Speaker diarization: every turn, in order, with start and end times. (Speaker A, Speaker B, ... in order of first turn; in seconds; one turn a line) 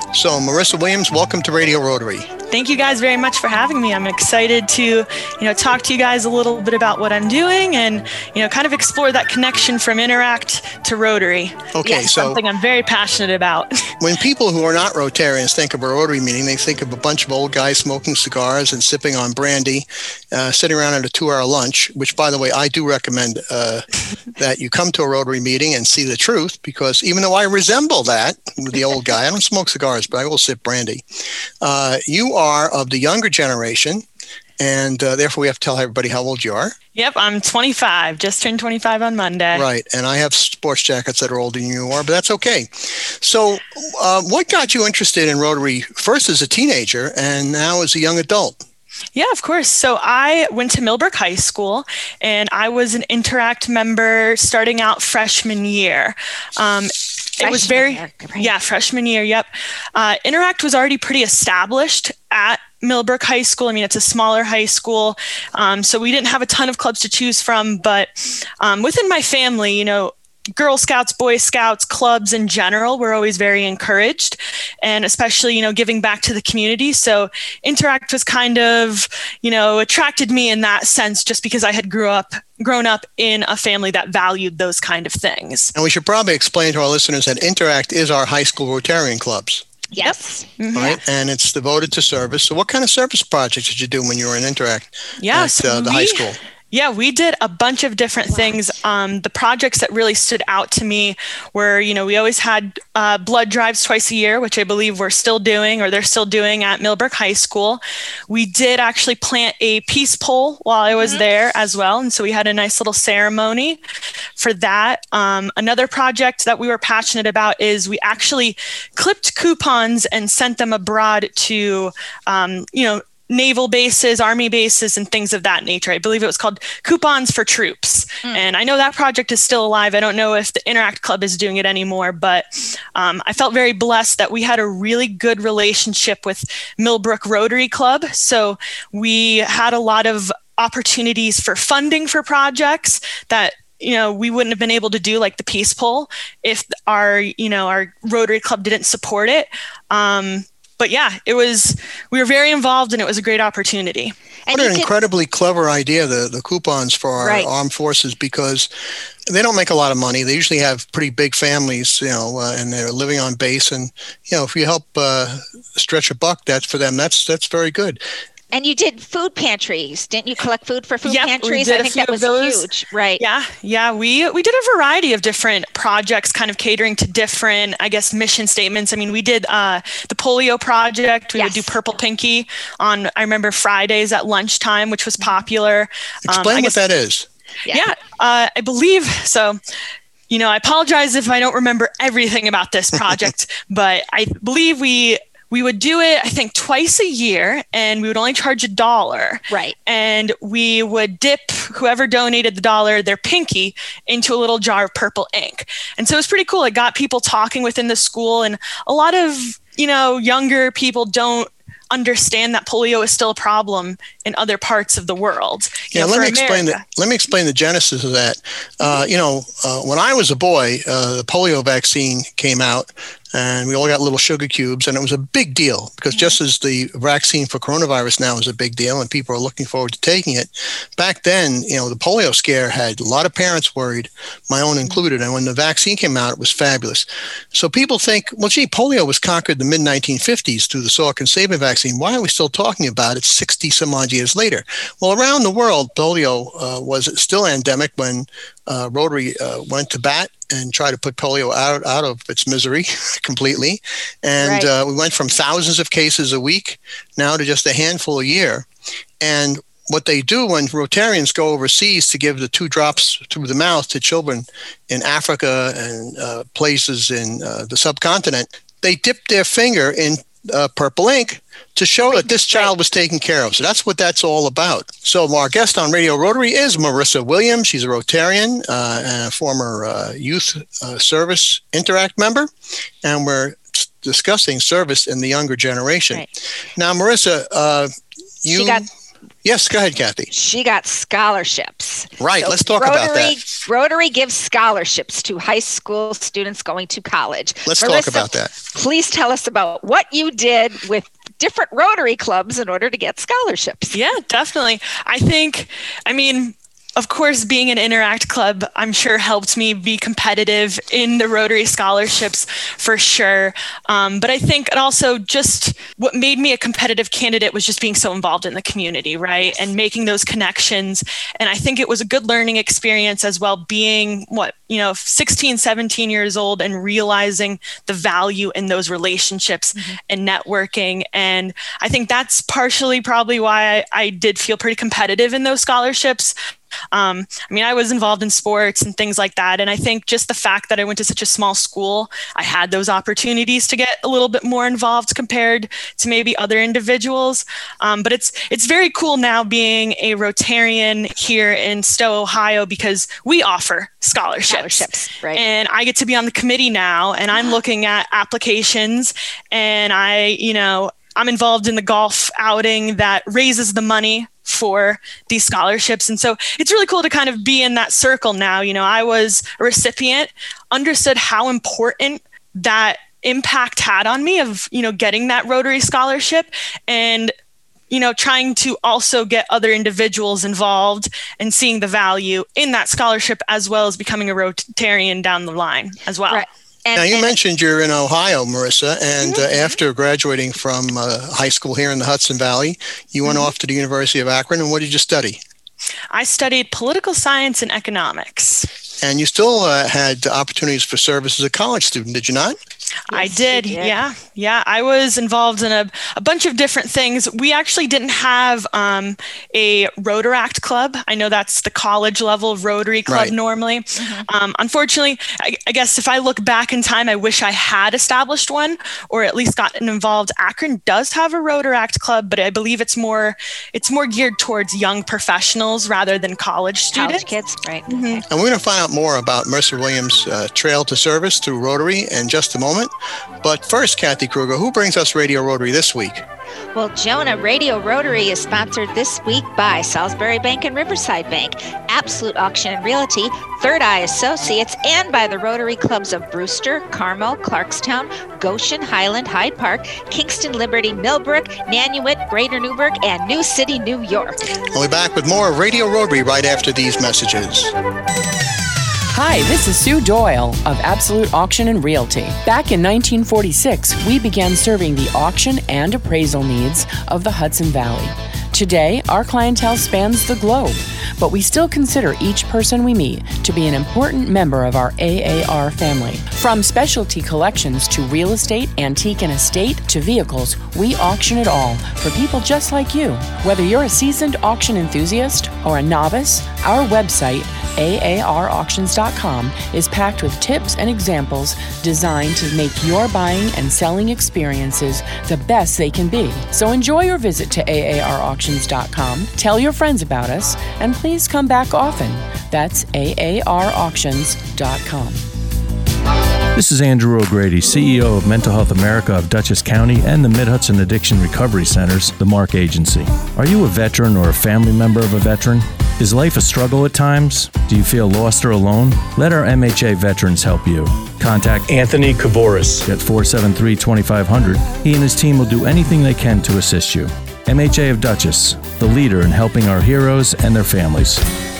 Speaker A: 0.1-2.3
Speaker B: 2.5-13.9
Speaker A: 11.7-12.4
Speaker A: 14.0-31.0
Speaker A: 31.6-34.0
Speaker A: 34.6-36.7
Speaker B: 36.9-39.6
Speaker A: 39.5-48.6
Speaker B: 49.1-85.7
Speaker C: 57.4-58.5
Speaker A: 85.7-89.7
Speaker C: 89.9-90.5
Speaker B: 90.0-91.0
Speaker A: 90.7-96.4
Speaker B: 95.2-113.8
Speaker C: 111.0-111.2
Speaker B: 114.4-154.1
Speaker C: 154.5-154.9
Speaker A: 154.5-158.7
Speaker C: 157.2-157.5
Speaker A: 159.3-168.0
Speaker C: 168.5-173.2
Speaker B: 171.0-172.6
Speaker B: 173.2-186.8
Speaker C: 181.4-181.7
Speaker A: 186.2-187.3
Speaker B: 187.7-189.6
Speaker B: 190.3-216.8
Speaker C: 199.5-199.7
Speaker A: 215.9-258.6
Speaker C: 254.4-254.7
Speaker A: 259.2-282.5
Speaker C: 272.1-272.7
Speaker A: 283.0-287.9
Speaker A: 288.4-288.9
Speaker C: 288.5-288.9
Speaker A: 289.4-290.3
Speaker C: 290.3-304.0
Speaker A: 292.2-293.4
Speaker A: 297.6-298.5
Speaker B: 303.9-336.4
Speaker B: 336.9-377.3
Speaker C: 354.5-355.4
Speaker B: 377.9-386.4
Speaker C: 386.3-387.3
Speaker A: 386.9-395.4
Speaker B: 389.2-389.5
Speaker B: 396.1-398.7
Speaker A: 399.0-402.6
Speaker C: 403.1-403.9
Speaker B: 403.1-427.2
Speaker A: 413.1-413.3
Speaker C: 413.9-414.2
Speaker C: 426.9-428.2
Speaker B: 427.9-428.2
Speaker A: 428.3-432.9
Speaker A: 433.4-436.2
Speaker C: 436.7-454.4
Speaker A: 454.7-457.7
Speaker D: 459.1-505.2
Speaker E: 506.5-531.2